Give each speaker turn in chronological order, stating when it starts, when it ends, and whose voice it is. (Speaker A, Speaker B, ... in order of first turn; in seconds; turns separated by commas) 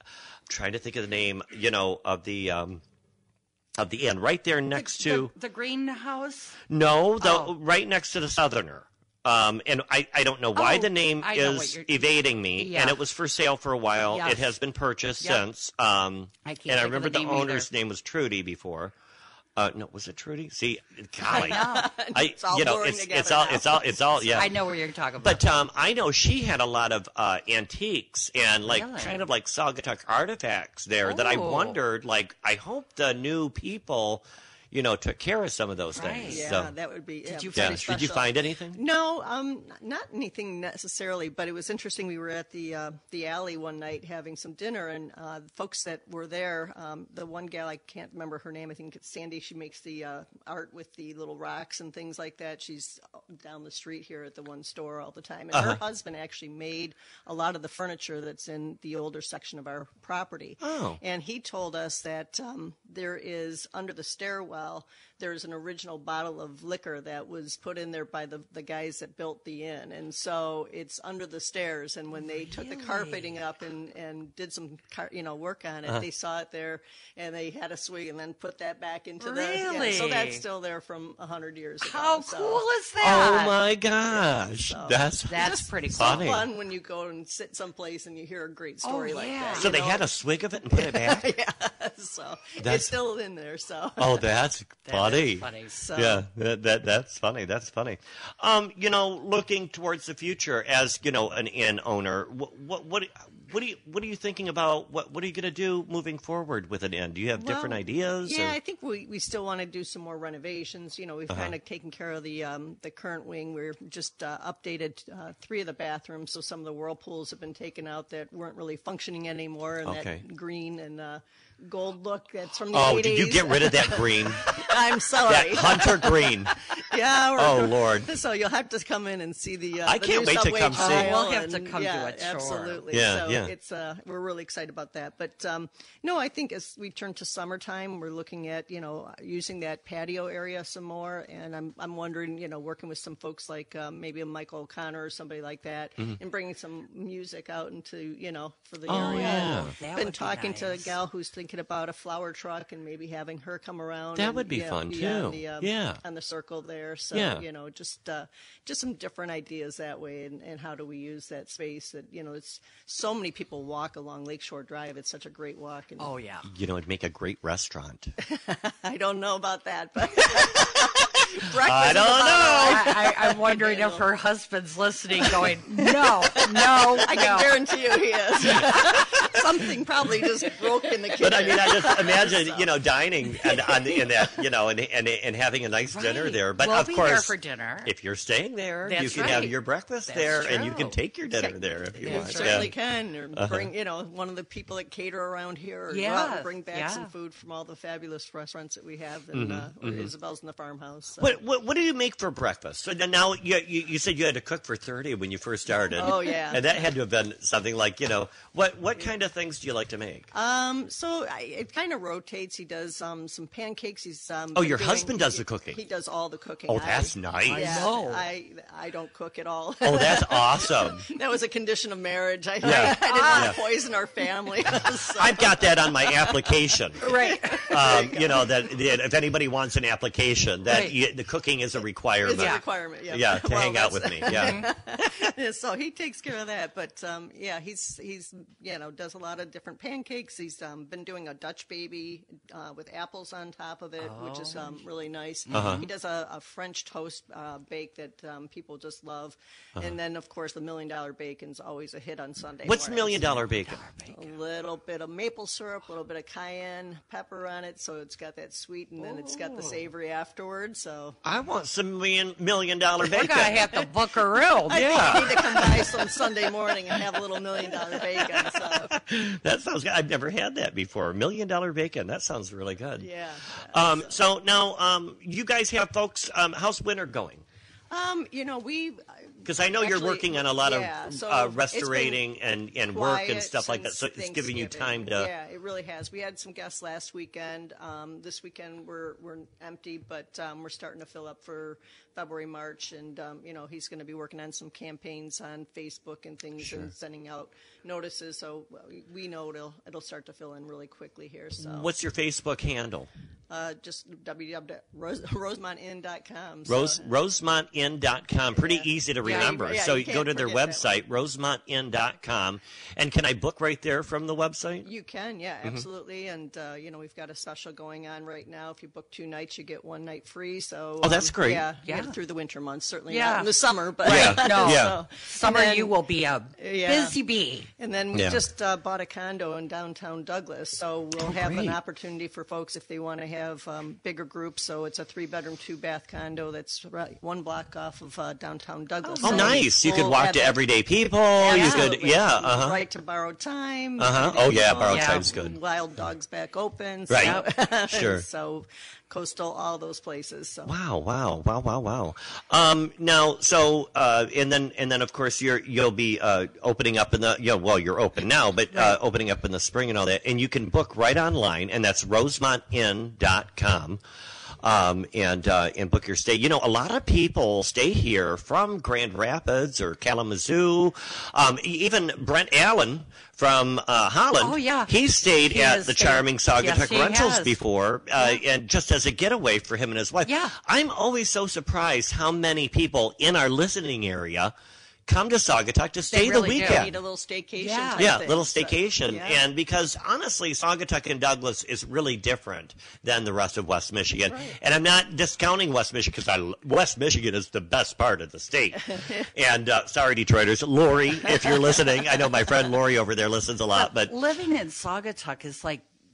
Speaker A: 0.5-2.8, Speaker A: 3.8-5.3, Speaker B: 4.7-6.6, Speaker A: 6.7-18.9, Speaker B: 7.2-7.5, Speaker B: 10.5-12.0, Speaker B: 12.5-13.0, Speaker B: 14.1-14.5, Speaker B: 16.4-17.7, Speaker A: 19.6-24.5, Speaker B: 21.3-21.9, Speaker C: 21.3-24.5, Speaker B: 24.3-25.6, Speaker A: 25.2-36.7, Speaker B: 28.6-29.2, Speaker B: 31.0-31.8, Speaker B: 35.9-36.5, Speaker C: 36.2-82.6, Speaker B: 37.2-37.9, Speaker A: 37.5-38.8, Speaker A: 55.5-55.8, Speaker A: 60.6-61.0, Speaker B: 72.3-73.3, Speaker B: 79.2-80.4, Speaker B: 81.8-83.5, Speaker A: 83.0-86.5, Speaker C: 84.1-90.0, Speaker B: 85.3-86.3, Speaker B: 88.8-89.7, Speaker A: 89.5-91.3, Speaker C: 90.7-94.2, Speaker A: 92.6-92.9, Speaker A: 94.0-108.6, Speaker B: 94.8-95.8, Speaker C: 95.7-96.2, Speaker C: 107.4-166.1, Speaker A: 111.3-111.5, Speaker A: 119.8-120.2, Speaker A: 122.7-124.7, Speaker A: 125.2-126.6, Speaker A: 127.3-128.1, Speaker A: 129.8-131.1, Speaker B: 130.7-132.8, Speaker A: 132.9-133.5, Speaker A: 148.9-149.7, Speaker B: 148.9-150.9, Speaker A: 154.1-156.0, Speaker A: 157.1-157.4, Speaker B: 166.0-166.5, Speaker A: 166.4-168.1, Speaker C: 168.2-174.1, Speaker A: 170.4-170.7, Speaker A: 171.2-172.9, Speaker B: 172.4-177.6, Speaker C: 175.2-182.7, Speaker A: 178.6-179.2, Speaker A: 181.2-187.3, Speaker C: 183.4-184.1, Speaker B: 185.9-187.9, Speaker A: 187.8-192.7, Speaker B: 188.8-191.0, Speaker C: 189.1-189.4, Speaker C: 191.3-201.4, Speaker B: 192.0-192.7, Speaker A: 193.3-193.7, Speaker B: 195.9-197.1, Speaker A: 199.3-200.1, Speaker A: 201.2-210.3, Speaker C: 205.9-206.6, Speaker C: 210.3-228.7, Speaker A: 214.5-215.8, Speaker A: 216.7-217.9, Speaker B: 217.4-218.3, Speaker A: 219.8-221.0, Speaker A: 222.6-223.6, Speaker B: 222.6-223.6, Speaker A: 225.1-227.1, Speaker B: 227.0-227.8, Speaker A: 227.6-234.7, Speaker B: 230.7-231.0, Speaker C: 232.2-253.4, Speaker B: 232.3-232.6, Speaker B: 234.3-234.7, Speaker B: 244.0-244.8, Speaker A: 245.5-245.9, Speaker B: 245.6-245.8, Speaker A: 252.6-253.8, Speaker B: 253.6-254.3, Speaker C: 254.1-261.2, Speaker B: 259.0-259.8, Speaker A: 261.2-263.8, Speaker B: 263.0-265.3, Speaker C: 264.7-268.9, Speaker A: 264.7-266.0, Speaker A: 267.7-273.1, Speaker C: 273.0-274.1, Speaker A: 273.7-277.4, Speaker C: 277.9-282.2, Speaker A: 279.4-285.3, Speaker C: 282.9-301.9, Speaker A: 301.6-303.1, Speaker C: 303.5-307.1, Speaker A: 306.7-314.9, Speaker C: 308.5-310.9, Speaker B: 309.2-309.6, Speaker C: 314.8-325.9, Speaker A: 321.0-321.6, Speaker B: 321.8-322.1, Speaker B: 323.1-323.5, Speaker B: 324.0-327.7, Speaker A: 324.0-325.0, Speaker C: 326.6-327.2, Speaker C: 327.8-340.6, Speaker A: 328.1-328.4, Speaker A: 331.2-331.8, Speaker B: 339.0-339.6, Speaker A: 339.2-342.8, Speaker C: 341.4-350.7, Speaker B: 341.4-341.9, Speaker A: 344.0-345.6, Speaker B: 344.8-345.3, Speaker A: 347.1-348.2, Speaker B: 347.2-347.5, Speaker A: 350.6-364.0, Speaker B: 358.7-359.0, Speaker A: 364.6-384.5, Speaker B: 374.4-377.6, Speaker B: 378.2-378.4, Speaker B: 380.2-380.5, Speaker A: 385.1-386.9, Speaker B: 386.1-386.9, Speaker C: 386.6-389.4, Speaker B: 387.6-388.2, Speaker A: 387.9-404.1, Speaker C: 394.3-394.6, Speaker C: 398.9-399.3, Speaker C: 401.4-401.7, Speaker B: 403.7-405.8